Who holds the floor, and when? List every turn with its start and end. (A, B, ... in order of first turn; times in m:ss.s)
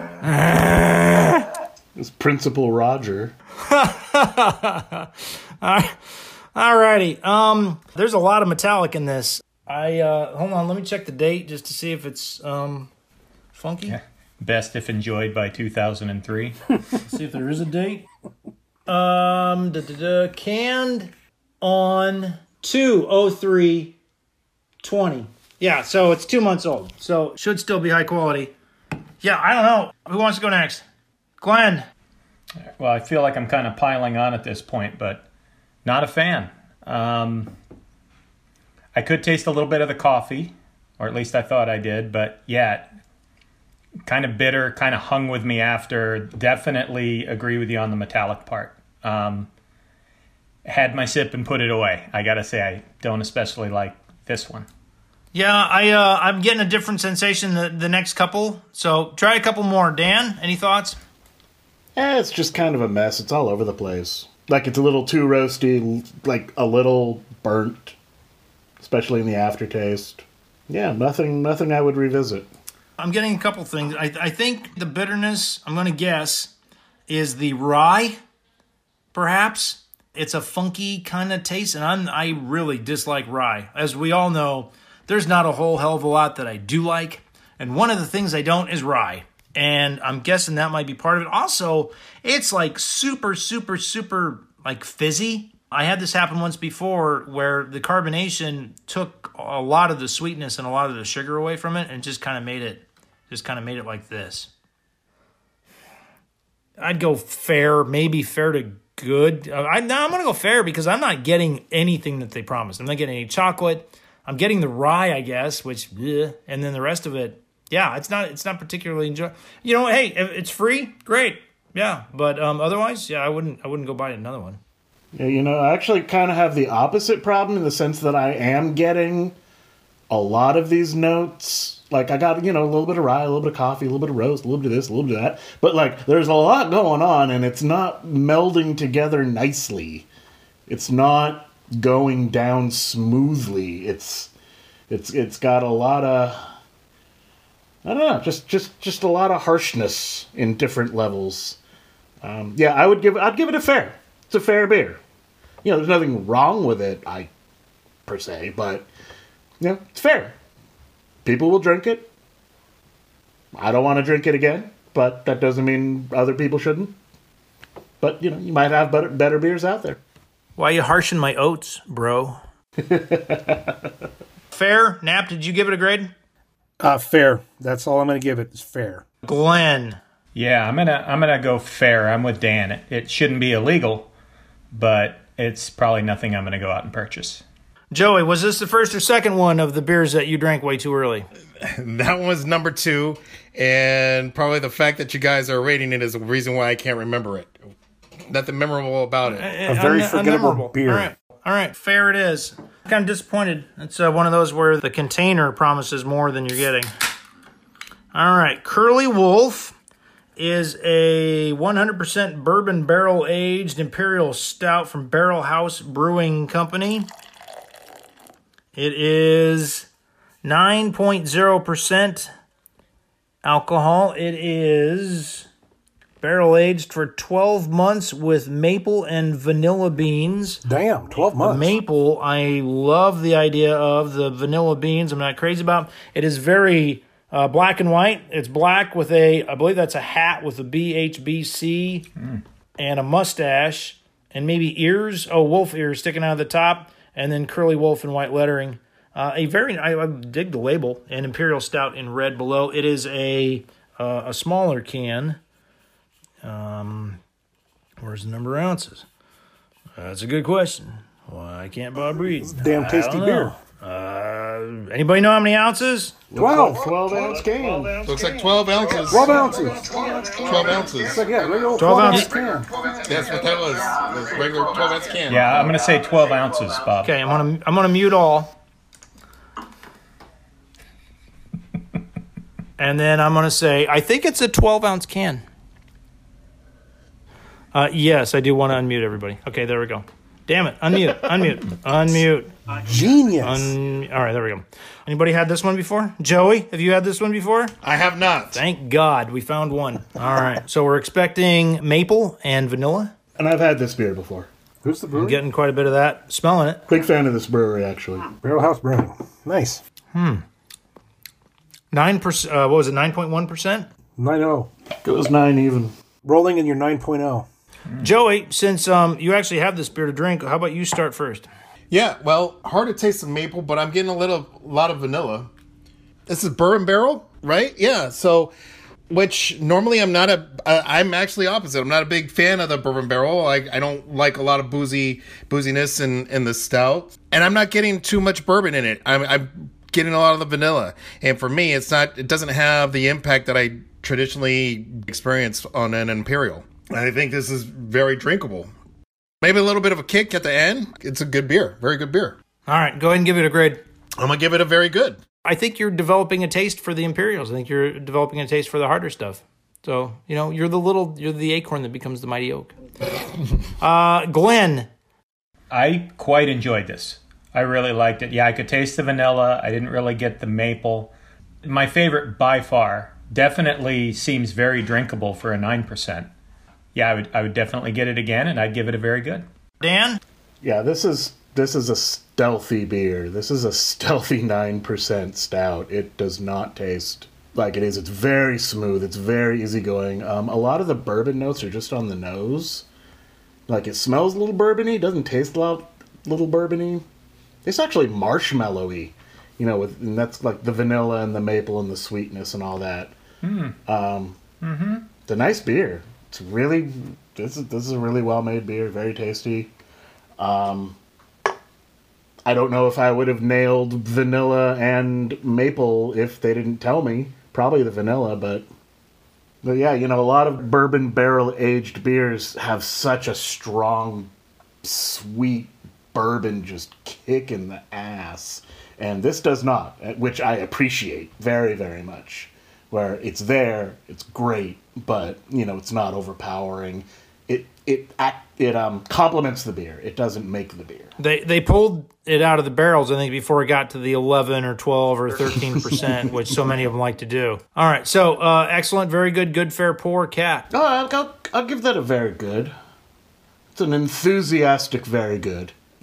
0:00.2-0:01.5 A
0:01.9-0:03.3 B
0:03.6-0:06.0 A
0:06.5-0:12.9 A
0:13.5-0:14.0 A
0:13.9-0:16.7 C
0:17.0-0:18.0 A
0:18.9-0:24.0 A
0:24.8-0:28.5 A
0:29.2-0:30.8 A
0:31.4-0:31.9 A
0:32.8-0:35.2 C
0:35.8-0:37.5 C
0:38.9-0:42.9 C
0:44.0-0:49.5 C
0:50.6-0:54.7 C
0:55.3-1:01.0 A
1:02.0-1:08.0 B
1:08.8-1:12.5 B
1:13.0-1:16.5 A
1:17.1-1:18.2 A
1:19.1-1:44.5 A
1:46.8-2:04.6 A
2:05.1-2:09.4 B
2:10.1-2:20.1 B
2:20.7-2:24.3 B
2:24.9-2:26.4 B
2:27.8-2:31.6 B
2:32.2-2:35.0 B
2:35.6-2:37.3 B
2:38.0-2:38.9 B
2:39.6-2:40.4 B
2:41.2-2:42.1 B
2:43.5-2:46.9 B
2:48.0-2:50.0 B
2:50.6-2:52.4 A
2:52.8-2:53.8 B
2:54.5-2:56.1 A
2:56.8-2:59.0 D
2:59.2-3:00.0 A
3:00.4-3:04.1 C
3:04.7-3:07.4 C
3:07.9-3:11.3 A
3:11.6-3:17.5 E
3:18.3-3:19.5 E
3:19.3-3:26.9 A
3:19.7-3:21.1 D
3:28.1-3:29.8 A
3:30.4-3:37.1 A
3:38.8-3:39.9 A
3:40.4-3:42.3 A
3:43.4-3:45.5 A
3:46.2-3:50.6 A
3:50.6-3:51.7 D
3:51.2-4:02.1 A
4:02.8-4:15.4 A
4:16.4-4:17.2 A
4:18.0-4:19.1 A
4:20.0-4:26.1 A
4:22.4-4:23.6 D
4:26.3-4:28.0 B
4:26.4-4:26.9 D
4:28.0-4:29.4 E
4:29.1-4:30.4 D
4:30.4-4:31.2 E
4:31.0-4:32.7 D
4:31.8-4:32.3 A
4:33.0-4:35.6 E
4:35.3-4:37.1 C
4:37.0-4:38.6 A
4:42.8-4:45.4 A
4:47.7-4:52.5 A
4:52.8-4:53.7 D
4:53.4-4:57.8 A
4:57.8-4:58.6 E
4:58.5-5:03.1 A
5:03.4-5:04.5 B
5:04.8-5:05.4 D
5:05.1-5:06.8 A
5:06.9-5:08.3 B
5:08.4-5:09.8 D
5:10.1-5:10.4 A
5:11.9-5:13.9 A
5:14.2-5:14.7 D
5:15.0-5:15.9 B
5:16.2-5:17.5 D
5:18.0-5:21.5 A
5:21.9-5:25.5 E
5:26.3-5:28.5 E
5:29.1-5:48.7 E
5:49.4-5:52.4 E
5:52.7-5:53.8 A
5:54.2-5:55.2 E
5:55.4-6:02.7 A
6:03.8-6:04.9 A
6:05.7-6:11.1 C
6:11.6-6:16.3 C
6:16.9-6:19.4 C
6:19.8-6:20.2 A
6:20.6-6:32.9 B
6:33.7-6:37.0 B
6:37.6-6:43.1 B
6:43.4-6:43.8 C
6:43.9-6:44.4 B
6:44.6-6:45.1 C
6:45.2-6:49.7 B
6:50.4-6:51.0 B
6:52.4-6:58.6 B
6:59.6-7:04.3 B
7:04.8-7:21.1 B
7:21.2-7:30.6 A
7:25.4-7:26.2 B
7:30.7-7:32.7 B
7:33.7-7:35.7 B